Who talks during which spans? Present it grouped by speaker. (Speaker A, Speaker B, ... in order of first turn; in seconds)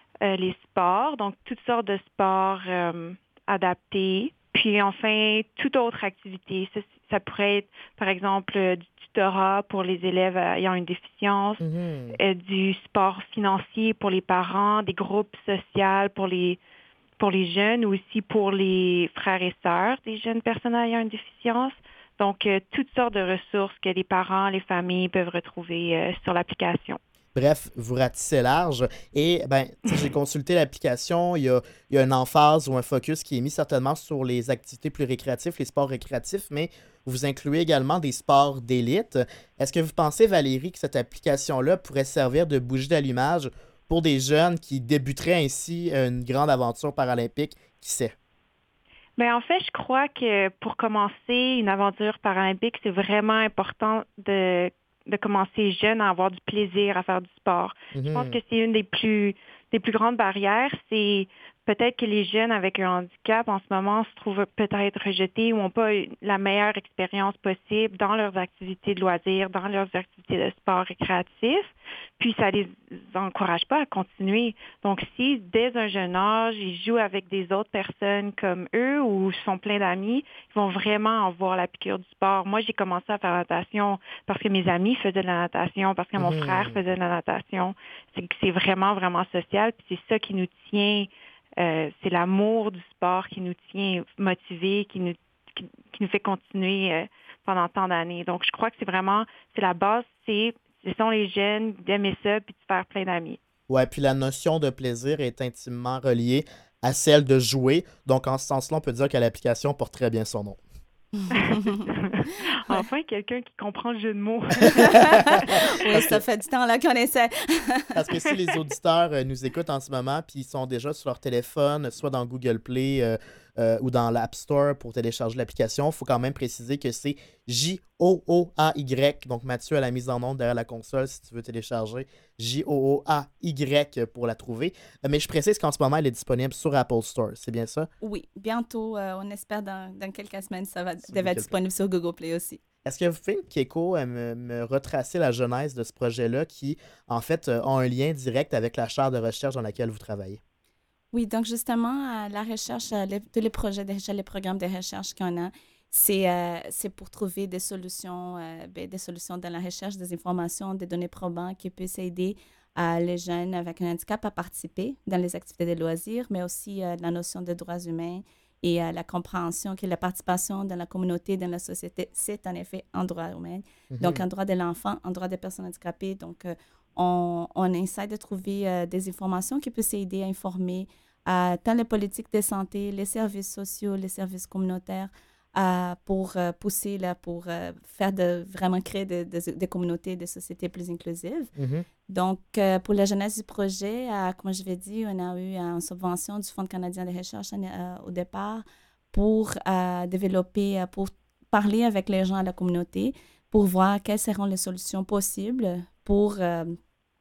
Speaker A: 0.2-11.6, 12.2-16.6, 17.2-27.0, 49.2-103.4, 111.3-115.5
Speaker B: 11.6-12.2, 27.3-48.1, 57.9-58.4, 86.2-86.8, 103.7-110.6, 114.8-116.2, 117.9-137.9, 141.1-141.5, 142.8-150.4, 173.9-174.2, 191.6-191.8
Speaker C: 111.2-111.9, 114.6-118.3, 138.0-142.6, 151.1-191.5, 192.1-206.8